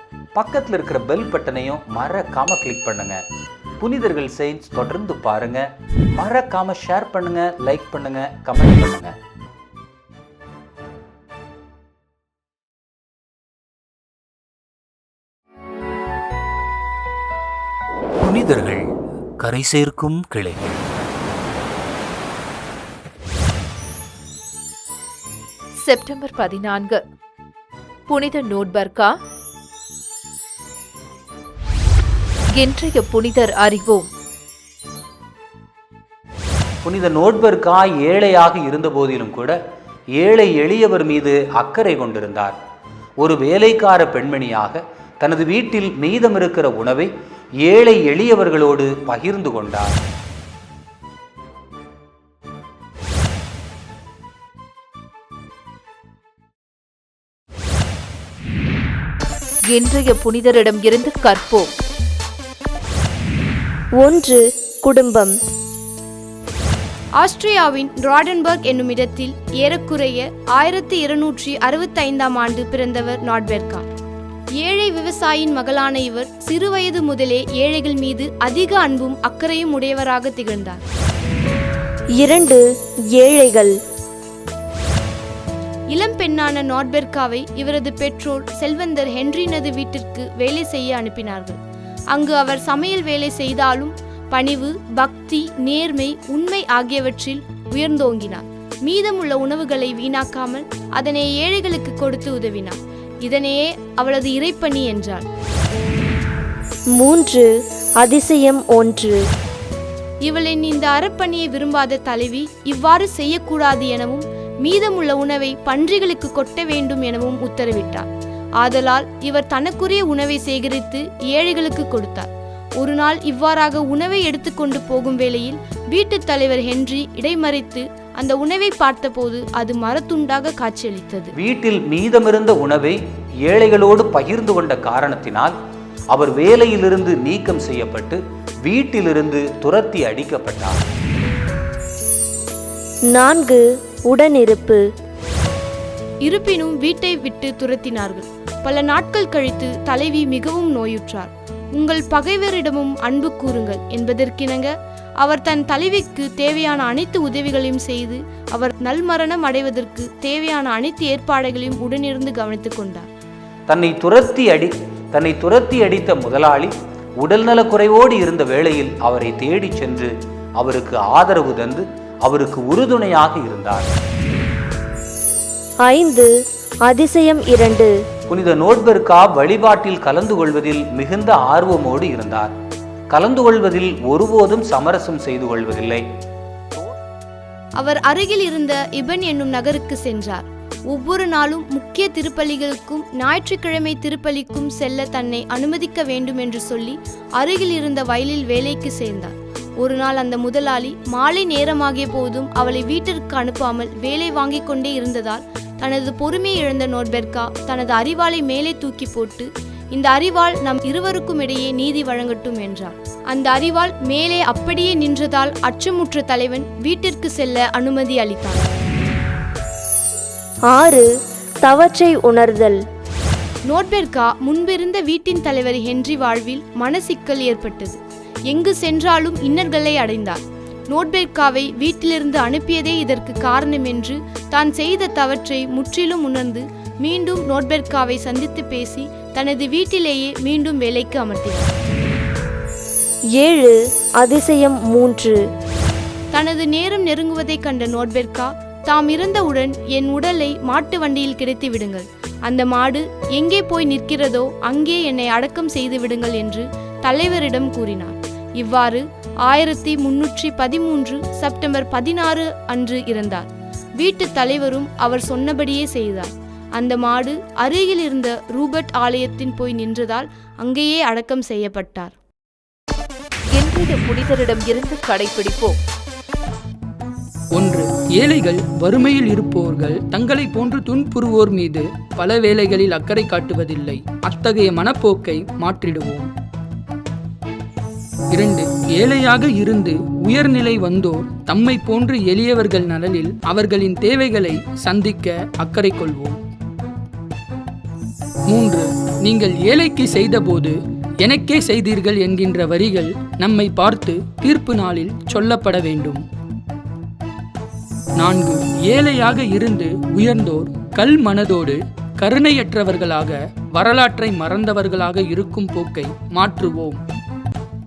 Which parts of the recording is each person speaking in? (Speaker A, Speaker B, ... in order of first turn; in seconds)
Speaker A: 0.3-3.2, 3.8-9.1, 18.2-20.9, 36.8-39.6, 40.1-42.5, 43.2-47.1, 47.6-49.9, 131.3-135.5, 136.1-140.8, 163.7-173.9, 178.3-182.5, 183.1-186.0
Speaker B: 25.8-27.0, 28.1-29.2, 32.5-34.1, 59.7-61.7, 273.5-275.8
Speaker C: 64.0-65.3, 82.2-82.6, 83.2-83.7, 107.0-107.5, 108.0-109.2, 143.1-144.8, 175.8-176.3, 176.9-177.9, 220.7-221.1, 221.6-222.8, 243.4-245.4
Speaker D: 67.2-73.9, 74.6-80.8, 85.9-91.6, 92.1-105.2, 110.2-118.1, 118.6-131.3, 146.2-163.1, 187.8-218.6, 223.7-241.7, 246.3-272.1
Speaker E: 277.5-286.3, 288.3-296.4, 298.5-306.2, 308.2-317.0